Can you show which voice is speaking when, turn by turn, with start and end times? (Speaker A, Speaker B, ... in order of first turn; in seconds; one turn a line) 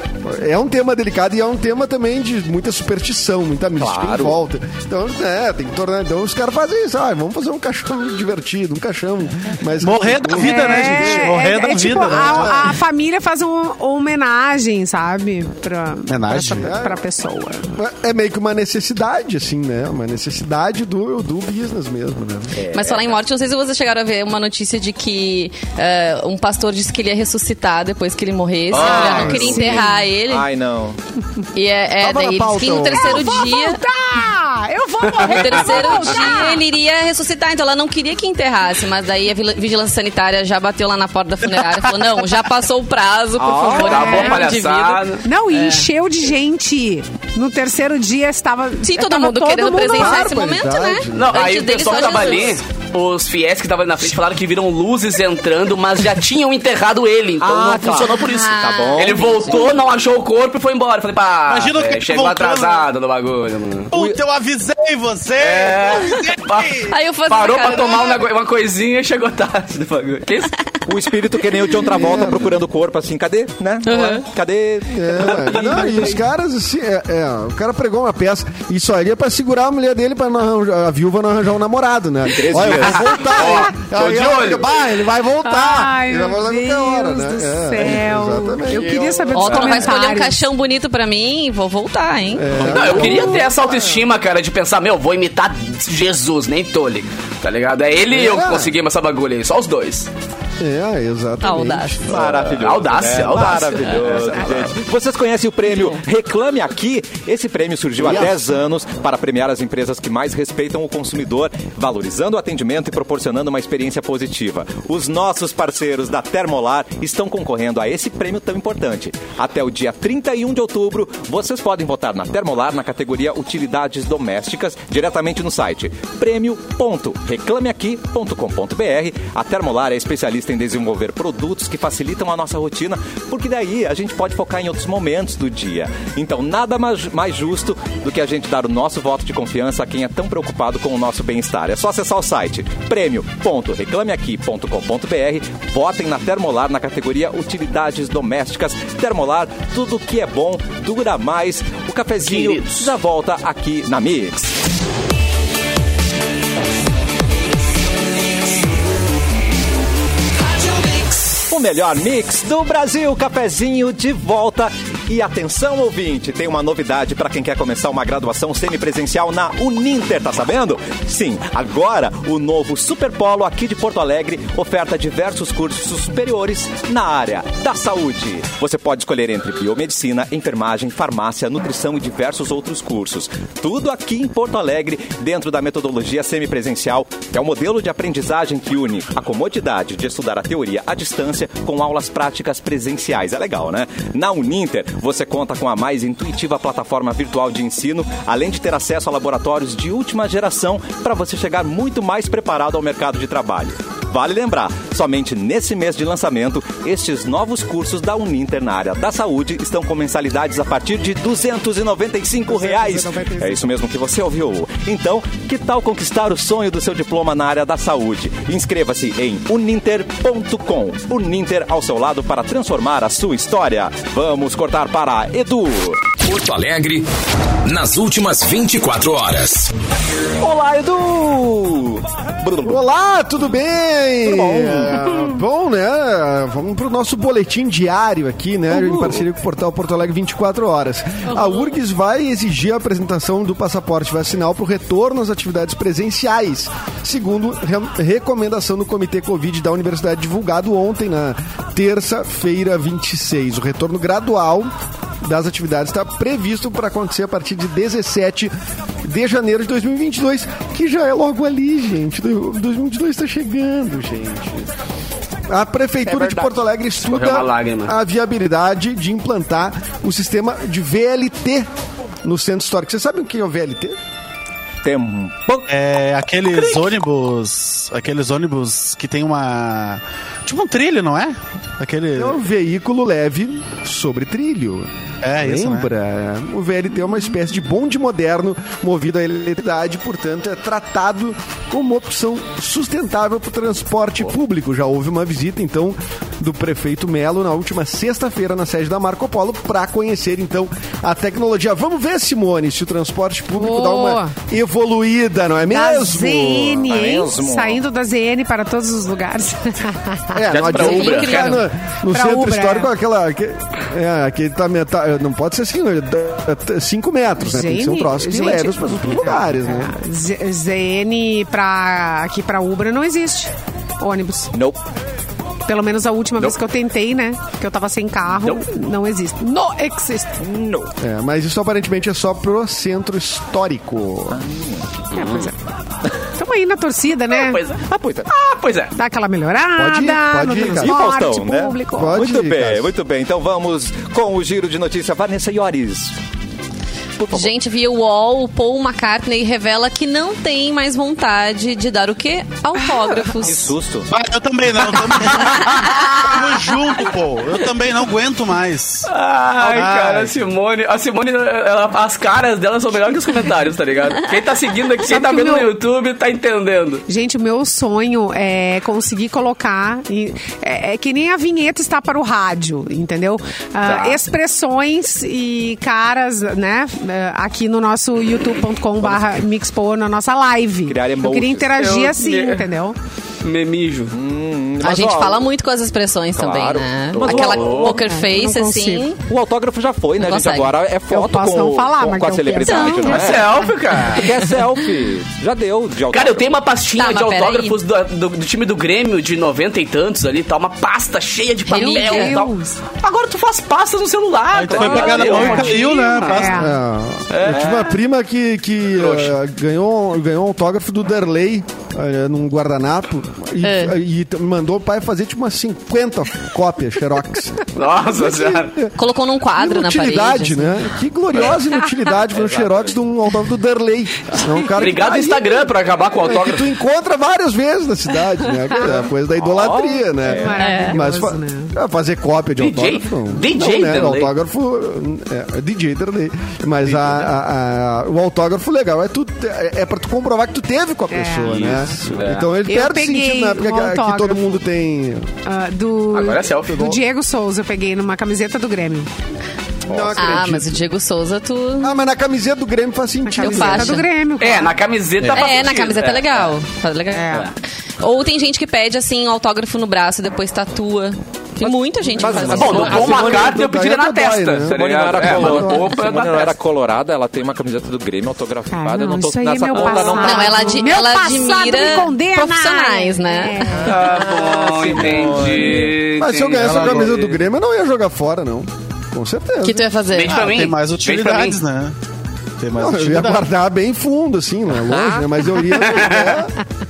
Speaker A: 0.2-11.4
Speaker B: 3.8-4.4
Speaker C: 9.8-12.6
Speaker D: 10.4-17.8
Speaker A: 12.0-12.7
Speaker C: 16.1-16.8
Speaker A: 16.6-17.0
Speaker A: 17.7-22.6
Speaker B: 22.5-23.2
Speaker E: 22.7-30.5
Speaker F: 28.7-29.6
Speaker D: 28.8-30.0
Speaker B: 28.8-31.0
Speaker E: 31.5-33.8
Speaker A: 32.0-33.3
Speaker D: 32.9-36.6
Speaker E: 35.2-45.9
Speaker B: 35.6-36.1
Speaker B: 43.4-44.4
Speaker F: 43.7-45.2
Speaker D: 43.8-44.5
Speaker D: 45.2-50.3
Speaker E: 48.8-52.6
Speaker A: 49.8-51.6
Speaker F: 51.1-63.9
Speaker B: 57.4-59.7
Speaker E: 58.0-59.8
Speaker C: 61.5-62.9
Speaker C: 63.9-66.9
Speaker B: 63.9-64.2
Speaker F: 65.4-70.5
Speaker E: 66.9-68.2
Speaker B: 70.8-76.1
Speaker A: 71.8-72.6
Speaker E: 73.8-74.2
Speaker A: 74.9-89.6
Speaker B: 82.3-83.3
Speaker F: 82.5-84.7
Speaker D: 85.4-90.5
Speaker E: 89.3-93.1
Speaker A: 92.3-94.0
Speaker F: 92.6-100.1
Speaker A: 98.1-98.7
Speaker A: 100.6-102.5
Speaker E: 101.4-102.0
Speaker B: 102.1-154.5
Speaker F: 102.2-104.7
Speaker A: 108.0-108.5
Speaker F: 152.2-152.9
Speaker B: 161.5-226.1
Speaker A: 212.4-213.7
Speaker G: 226.2-227.1
Speaker G: 227.6-229.7
Speaker B: 230.4-232.8
Speaker A: 232.6-258.5
Speaker B: 234.2-235.3
Speaker B: 238.7-239.2
Speaker A: 259.0-264.7
Speaker A: 265.5-271.7
Speaker F: 267.1-267.9
Speaker A: 272.2-274.0
Speaker B: 274.8-275.7
Speaker C: 275.7-282.4
Speaker A: 282.1-306.8
Speaker C: 285.2-285.9
Speaker D: 303.6-304.3
Speaker D: 305.7-310.4
Speaker B: 306.8-307.8
Speaker A: 310.3-319.9
Speaker F: 310.5-311.7
Speaker E: 310.6-311.7
Speaker D: 312.1-312.9
Speaker D: 317.4-324.5
Speaker B: 324.5-324.8
Speaker D: 325.6-330.4
Speaker F: 328.4-328.6
Speaker B: 330.4-330.9
Speaker A: 331.0-334.4
Speaker B: 334.3-335.4
Speaker D: 335.1-335.6
Speaker D: 336.4-337.6
Speaker F: 337.3-338.9
Speaker B: 337.8-338.3
Speaker D: 338.9-342.2
Speaker A: 339.8-341.0
Speaker B: 340.6-346.1
Speaker A: 341.9-342.9
Speaker B: 347.2-347.5
Speaker E: 347.3-353.7
Speaker B: 353.4-354.1
Speaker C: 354.1-359.1
Speaker F: 355.5-355.9
Speaker F: 359.1-367.0
Speaker C: 359.6-360.3
Speaker D: 365.1-365.7
Speaker D: 367.1-382.9
Speaker F: 373.8-374.2
Speaker B: 379.0-379.4
Speaker B: 380.9-381.7
Speaker F: 381.8-382.7
Speaker F: 383.4-384.1
Speaker B: 384.1-385.5
Speaker E: 384.8-389.2
Speaker B: 386.4-388.1
Speaker F: 387.2-388.0
Speaker D: 387.9-389.1
Speaker B: 389.2-393.6
Speaker E: 390.2-390.7
Speaker D: 391.1-393.7
Speaker E: 392.6-393.2
Speaker F: 393.0-394.3
Speaker B: 394.1-396.5
Speaker F: 396.1-406.5
Speaker E: 397.0-397.8
Speaker E: 401.7-402.4
Speaker D: 401.7-402.8
Speaker C: 404.5-406.6
Speaker B: 404.7-405.5
Speaker D: 405.1-406.8
Speaker E: 405.4-405.6
Speaker A: 406.5-418.9
Speaker F: 407.3-407.8
Speaker B: 407.5-407.9
Speaker F: 409.0-409.3
Speaker E: 413.6-414.0
Speaker F: 417.7-418.7
Speaker E: 418.9-420.8
Speaker A: 419.5-445.3
Speaker B: 422.3-423.0
Speaker F: 424.7-426.7
Speaker B: 429.4-430.7
Speaker D: 430.3-431.7
Speaker E: 430.6-431.0
Speaker F: 432.6-434.3
Speaker D: 441.1-441.9
Speaker F: 442.1-442.5
Speaker D: 442.6-444.5
Speaker D: 445.4-449.1
Speaker F: 446.1-447.0
Speaker A: 449.9-450.8
Speaker B: 449.9-450.1
Speaker E: 450.1-451.9
Speaker A: 451.8-454.0
Speaker D: 453.2-454.8
Speaker E: 453.4-454.1
Speaker F: 454.4-456.5
Speaker C: 455.2-455.5
Speaker E: 455.3-457.5
Speaker D: 457.1-457.5
Speaker E: 458.0-463.4
Speaker B: 461.6-463.5
Speaker A: 462.3-465.9
Speaker F: 462.5-466.6
Speaker B: 464.7-470.8
Speaker D: 468.7-474.0
Speaker E: 470.1-473.9
Speaker B: 473.8-476.0
Speaker F: 473.8-477.3
Speaker A: 476.2-479.9
Speaker C: 476.6-477.3
Speaker E: 479.6-480.5
Speaker F: 480.1-481.6
Speaker C: 480.3-481.9
Speaker C: 482.6-483.4
Speaker A: 482.7-486.5
Speaker F: 485.8-486.4